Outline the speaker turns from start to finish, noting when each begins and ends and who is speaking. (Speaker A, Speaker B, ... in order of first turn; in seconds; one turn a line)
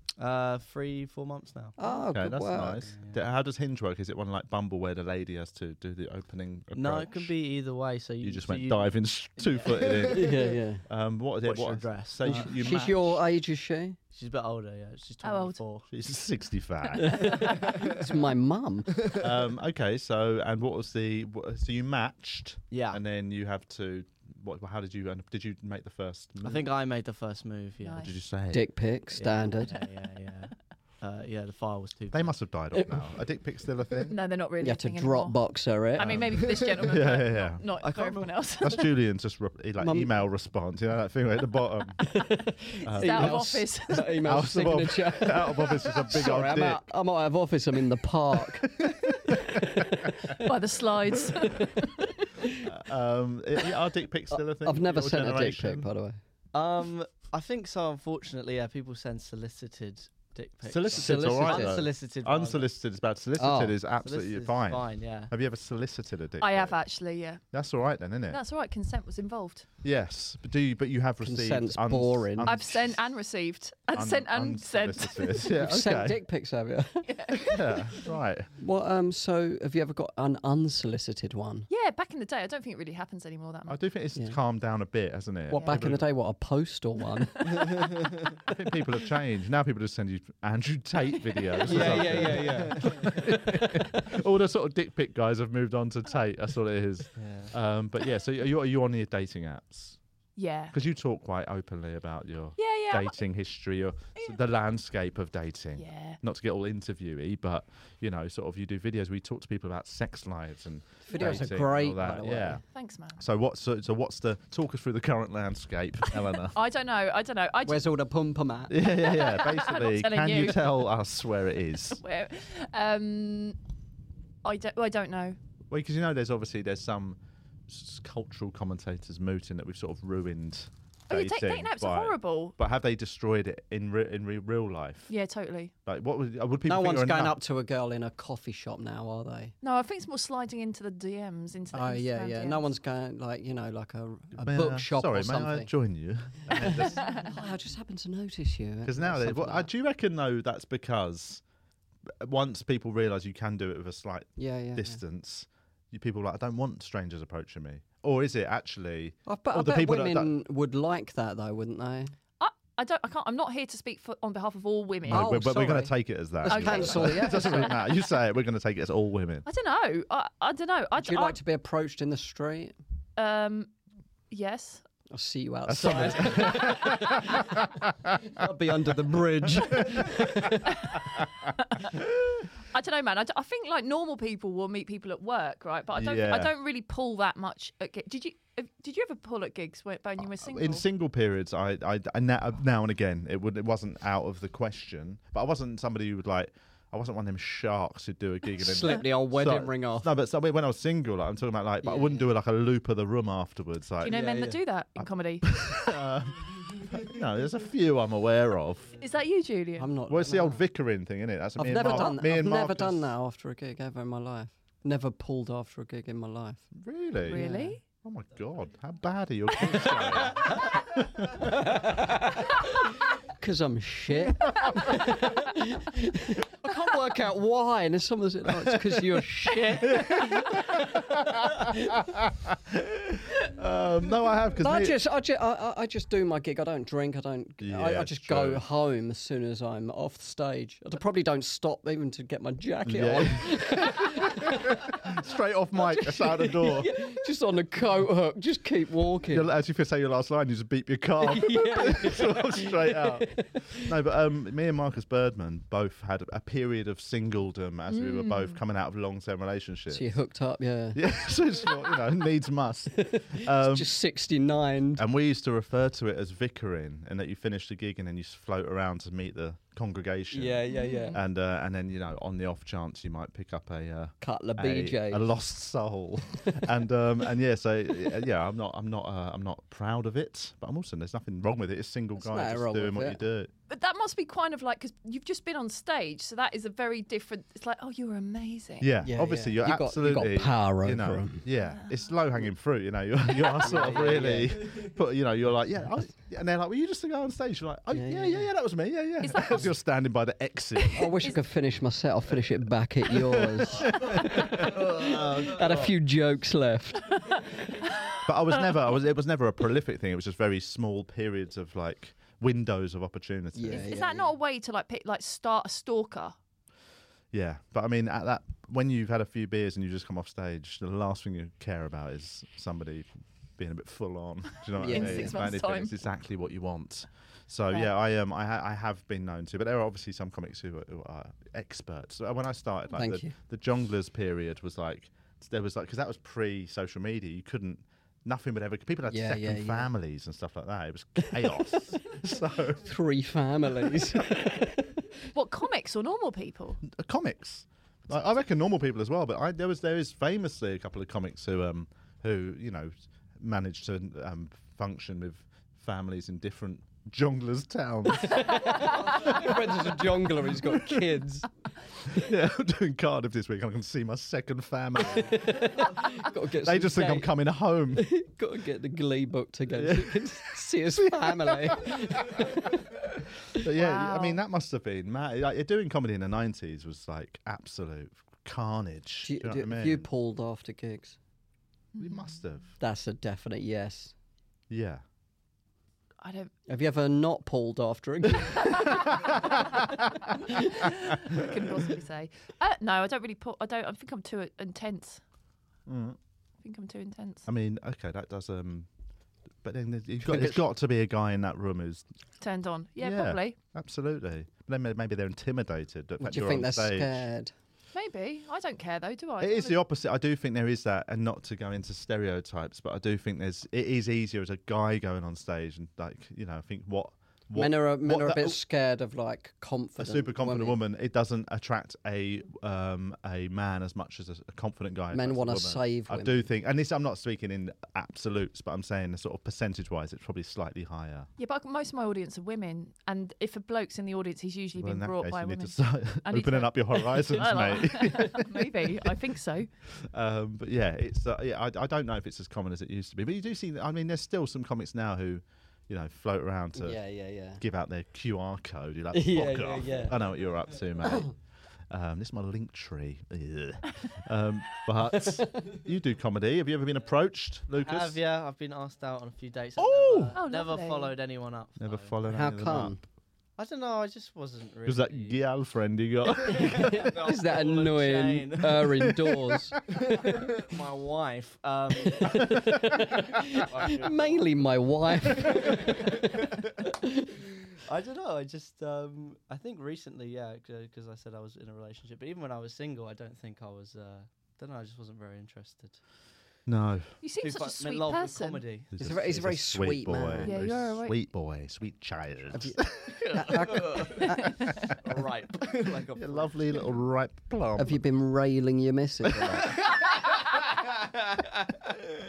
Speaker A: 0.2-1.7
Speaker B: 1.8-2.9
Speaker C: 2.1-7.3
Speaker A: 2.9-3.2
Speaker A: 6.7-10.5
Speaker C: 8.2-13.2
Speaker B: 10.1-10.8
Speaker A: 11.4-13.2
Speaker B: 12.2-14.0
Speaker A: 14.1-15.9
Speaker D: 15.2-15.6
Speaker C: 15.9-17.4
Speaker B: 17.0-19.1
Speaker A: 17.6-17.9
Speaker C: 19.2-26.7
Speaker A: 22.7-23.0
Speaker A: 26.4-28.1
Speaker D: 27.8-28.1
Speaker C: 28.0-28.7
Speaker B: 28.5-29.8
Speaker A: 29.1-32.3
Speaker C: 32.1-34.1
Speaker B: 32.7-33.1
Speaker D: 34.1-35.4
Speaker B: 34.6-36.3
Speaker D: 35.9-38.8
Speaker C: 36.0-37.7
Speaker A: 37.8-38.3
Speaker C: 38.6-42.0
Speaker B: 39.8-40.1
Speaker B: 42.0-49.1
Speaker C: 42.8-46.9
Speaker D: 42.9-44.0
Speaker C: 48.5-50.0
Speaker D: 50.4-52.2
Speaker C: 52.6-55.9
Speaker B: 54.6-56.2
Speaker A: 56.5-62.7
Speaker C: 60.6-66.8
Speaker B: 60.9-61.9
Speaker B: 63.4-63.8
Speaker A: 64.0-65.3
Speaker D: 66.4-67.4
Speaker C: 67.5-68.4
Speaker D: 68.3-69.7
Speaker C: 69.8-73.0
Speaker B: 71.2-72.6
Speaker D: 72.4-75.5
Speaker C: 73.9-76.2
Speaker B: 75.5-77.6
Speaker D: 77.0-78.0
Speaker C: 77.4-78.5
Speaker B: 78.6-81.7
Speaker D: 81.7-83.8
Speaker C: 83.7-86.1
Speaker B: 85.5-88.1
Speaker D: 85.5-85.8
Speaker C: 88.5-100.0
Speaker B: 91.7-93.1
Speaker A: 91.7-93.1
Speaker A: 97.2-97.5
Speaker D: 100.3-100.7
Speaker C: 100.7-112.6
Speaker D: 102.6-103.2
Speaker D: 104.2-104.4
Speaker D: 105.8-106.2
Speaker B: 111.1-112.6
Speaker D: 111.1-111.5
Speaker D: 112.7-113.2
Speaker C: 113.2-116.6
Speaker D: 116.4-117.9
Speaker B: 117.6-118.8
Speaker C: 118.7-122.0
Speaker D: 118.8-120.9
Speaker D: 122.0-123.6
Speaker D: 124.4-125.4
Speaker C: 125.7-135.1
Speaker D: 131.1-132.6
Speaker D: 135.1-135.7
Speaker C: 135.8-137.4
Speaker B: 136.6-139.5
Speaker D: 139.6-142.6
Speaker B: 141.7-145.7
Speaker C: 144.4-147.2
Speaker B: 146.5-149.7
Speaker D: 147.0-147.3
Speaker C: 148.8-151.4
Speaker C: 152.2-160.3
Speaker B: 154.4-155.0
Speaker B: 159.2-162.1
Speaker D: 162.4-165.4
Speaker C: 165.1-169.4
Speaker B: 165.1-167.8
Speaker D: 166.4-167.8
Speaker D: 169.4-171.4
Speaker B: 171.0-172.8
Speaker D: 173.2-173.7
Speaker D: 174.3-174.8
Speaker B: 175.1-181.0
Speaker C: 175.7-178.4
Speaker C: 179.5-180.2
Speaker D: 181.7-181.9
Speaker D: 182.7-190.8
Speaker C: 185.9-186.5
Speaker C: 190.2-209.0
Speaker B: 198.5-200.1
Speaker D: 204.0-205.5
Speaker A: 204.1-204.6
Speaker D: 209.0-209.9
Speaker B: 209.8-210.6
Speaker C: 210.1-213.1
Speaker B: 211.6-216.7
Speaker D: 211.8-212.1
Speaker C: 216.7-217.4
Speaker B: 217.2-217.8
Speaker D: 217.2-217.8
Speaker C: 218.0-221.8
Speaker B: 221.5-222.6
Speaker B: 223.4-230.9
Speaker C: 228.5-235.0
Speaker B: 234.6-245.2
Speaker C: 237.6-238.6
Speaker C: 242.8-247.1
Speaker B: 245.8-249.5
Speaker C: 249.3-260.1
Speaker B: 251.2-253.8
Speaker D: 257.9-258.6
Speaker B: 259.9-261.0
Speaker C: 260.9-263.9
Speaker B: 262.9-265.0
Speaker C: 264.9-283.5
Speaker B: 270.3-271.2
Speaker D: 270.7-271.2
Speaker B: 274.2-275.2
Speaker B: 282.2-283.2
Speaker D: 283.7-288.9
Speaker C: 288.8-301.1
Speaker B: 289.0-291.4
Speaker D: 291.6-291.9
Speaker B: 293.6-294.6
Speaker A: 293.9-294.4
Speaker B: 297.9-298.5
Speaker D: 299.2-299.7
Speaker D: 300.8-301.4
Speaker B: 300.9-307.4
Speaker C: 303.1-305.9
Speaker C: 308.2-313.9
Speaker B: 313.5-314.3
Speaker D: 313.8-316.3
Speaker C: 317.3-342.9
Speaker B: 324.8-325.4
Speaker D: 324.8-325.9
Speaker B: 332.9-333.3
Speaker B: 339.1-339.9
Speaker B: 342.8-345.1
Speaker D: 345.3-346.8
Speaker C: 346.8-361.0
Speaker B: 358.2-361.5
Speaker C: 362.1-365.9
Speaker B: 365.0-367.3
Speaker C: 366.6-368.1
Speaker B: 367.9-373.0
Speaker C: 369.7-372.5
Speaker C: 373.5-380.1
Speaker D: 373.8-374.4
Speaker B: 379.2-381.2
Speaker D: 381.9-382.4
Speaker C: 382.0-382.8
Speaker B: 382.8-384.1
Speaker C: 384.7-385.0
Speaker D: 386.2-386.5
Speaker B: 386.7-389.8
Speaker C: 389.3-389.8
Speaker B: 390.4-390.6
Speaker D: 390.6-395.2
Speaker C: 395.9-396.2
Speaker D: 396.6-397.5
Speaker C: 397.5-398.9
Speaker C: 399.6-402.0
Speaker B: 400.2-400.6
Speaker D: 402.4-403.6
Speaker C: 403.0-407.3
Speaker B: 406.2-407.5
Speaker D: 407.9-409.8
Speaker C: 409.4-418.6
Speaker B: 417.5-420.8
Speaker C: 420.0-431.3
Speaker B: 425.1-426.4
Speaker D: 431.4-439.7
Speaker C: 434.8-438.7
Speaker C: 440.0-451.3
Speaker B: 446.8-447.6
Speaker B: 449.1-450.1
Speaker A: 449.4-450.2
Speaker B: 451.0-451.3
Speaker C: 451.9-458.2
Speaker B: 455.0-455.7
Speaker A: 457.8-462.1
Speaker C: 459.8-460.4
Speaker D: 460.3-461.1
Speaker C: 461.8-463.0
Speaker B: 462.3-463.0
Speaker A: 463.6-465.4
Speaker C: 464.8-467.2
Speaker A: 466.4-469.1
Speaker B: 466.6-470.4
Speaker C: 469.0-469.6
Speaker A: 469.9-472.8
Speaker B: 472.0-477.4
Speaker A: 473.3-476.4
Speaker A: 477.8-486.0
Speaker C: 486.7-487.2
Speaker D: 487.2-488.6
Speaker A: 487.4-488.9
Speaker C: 488.9-494.1
Speaker B: 489.0-490.6
Speaker D: 490.4-491.2
Speaker B: 492.5-494.9
Speaker A: 493.2-494.3
Speaker A: 495.0-496.9
Speaker C: 496.1-498.0
Speaker B: 497.8-499.7
Speaker C: 499.3-499.7